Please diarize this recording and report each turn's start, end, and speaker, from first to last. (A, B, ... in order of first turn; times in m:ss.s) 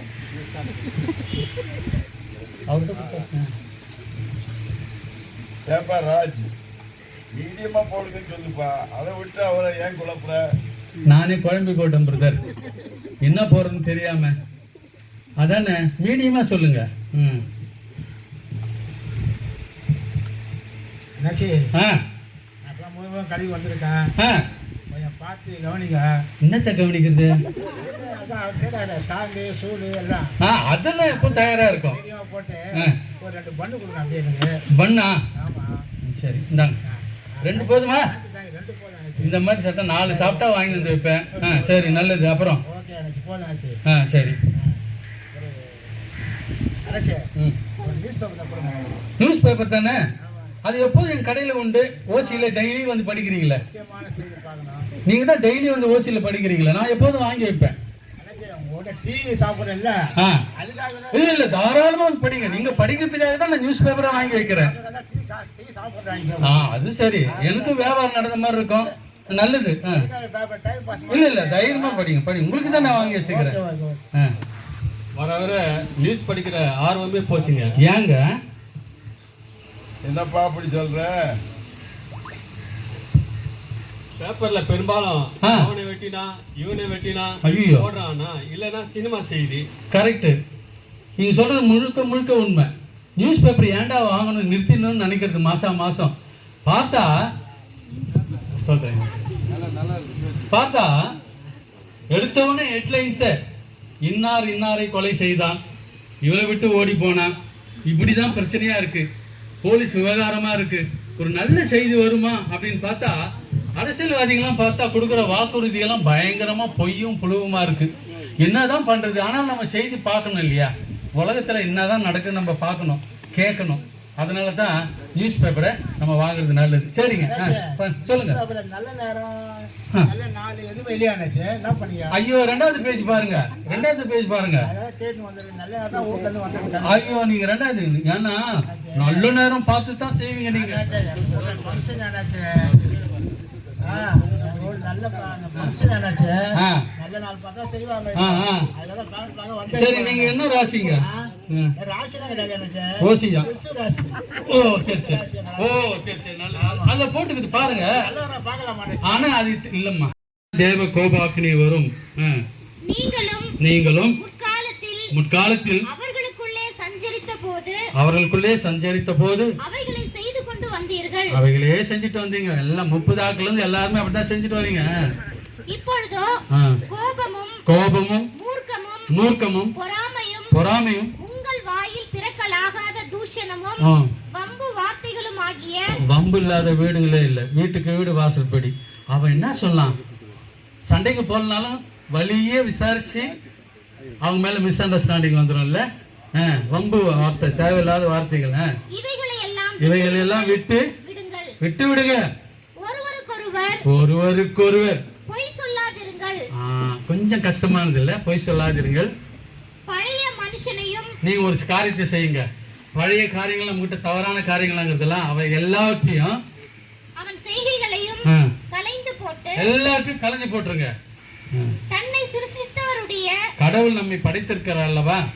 0:02.7-0:03.5 A
0:05.6-0:06.5 B
0:07.3-0:10.4 B
0:11.0-0:12.4 A
0:13.2-0:14.4 A
0:15.4-0:17.4 A
0:21.2-0:21.6 C
0:21.7-0:22.0 A
0:22.6-0:24.1 C
0:24.2-0:24.4 A
0:24.9-0:26.1 C
0:26.4-0:27.4 A
0:27.6-0:30.3 C
0:30.4-0:32.0 A
0:31.0-0:34.5 C
0:34.7-0:35.2 A
0:35.3-0:35.8 C
0:36.1-0:36.8 A
0:36.8-0:39.4 C
0:37.4-0:38.1 A
0:39.2-0:42.6 A
0:40.0-0:42.0 C
0:42.7-0:43.8 C
0:43.8-0:44.4 A
0:45.3-0:45.8 C
0:46.8-0:47.2 C
0:47.8-0:49.0 C
0:49.2-0:50.0 A
0:50.2-0:50.6 C
0:50.6-0:53.6 A
0:52.1-0:52.5 C
0:53.6-0:54.9 C
0:55.0-0:57.8 A
0:58.2-1:00.0 C
1:00.2-1:00.4 A
1:00.5-1:03.0 C
1:01.1-1:04.7 A
1:03.8-1:06.7 C
1:06.4-1:10.1 A
1:07.2-1:08.0 C
1:09.9-1:12.0 C
1:11.1-1:13.6 A
1:12.6-1:14.0 C
1:15.2-1:17.8 D
1:17.4-1:17.7 B
1:17.7-1:18.2 A
1:20.0-1:21.4 B
1:24.2-1:29.7 D
1:25.4-1:25.7 A
1:27.4-1:27.9 A
1:29.9-1:30.4 A
1:31.2-1:36.1 A
1:36.7-1:37.1 A
1:38.6-1:39.1 A
1:39.5-1:40.4 B
1:40.5-1:41.0 A
1:42.1-1:43.3 A
1:44.0-1:45.6 A
1:46.2-1:47.3 A
1:47.9-1:49.1 A
1:49.6-1:53.2 A
1:53.8-2:08.4 A
2:07.2-2:12.2 C
2:12.1-2:14.7 A
2:14.6-2:17.0 C
2:16.8-2:20.8 A
2:18.7-2:19.3 C
2:20.5-2:22.9 C
2:23.8-2:30.4 C
2:26.5-2:26.8 A
2:28.2-2:28.7 A
2:29.7-2:31.7 A
2:31.0-2:35.7 C
2:33.0-2:33.5 A
2:34.5-2:37.9 A
2:36.6-2:36.9 C
2:38.0-2:39.3 C
2:39.0-2:42.4 A
2:42.8-2:43.5 E
2:43.6-2:44.2 A
2:44.1-2:45.1 E
2:45.1-2:45.9 A
2:45.8-2:47.8 E
2:48.0-2:49.5 A
2:49.6-2:51.4 E
2:51.3-2:54.9 A
2:55.7-2:56.3 E
2:56.5-2:56.8 A
2:56.9-2:57.6 E
2:57.6-2:58.3 A
2:58.4-2:59.1 E
2:59.1-2:59.7 A
2:59.7-3:00.6 E
3:00.5-3:01.1 A
3:01.2-3:06.0 E
3:03.8-3:04.1 A
3:06.0-3:10.0 A
3:10.8-3:13.4 A
3:14.2-3:15.8 A
3:16.4-3:18.7 A
3:18.9-3:21.5 E
3:19.8-3:20.9 A
3:21.6-3:22.2 A
3:22.8-3:23.8 E
3:23.8-3:25.0 A
3:25.3-3:26.4 E
3:26.5-3:29.1 A
3:29.9-3:31.1 E
3:31.2-3:36.4 A
3:37.2-3:39.7 E
3:38.2-3:38.5 A
3:39.6-3:40.9 A
3:41.5-3:41.8 A
3:41.9-3:43.4 E
3:43.6-3:45.2 A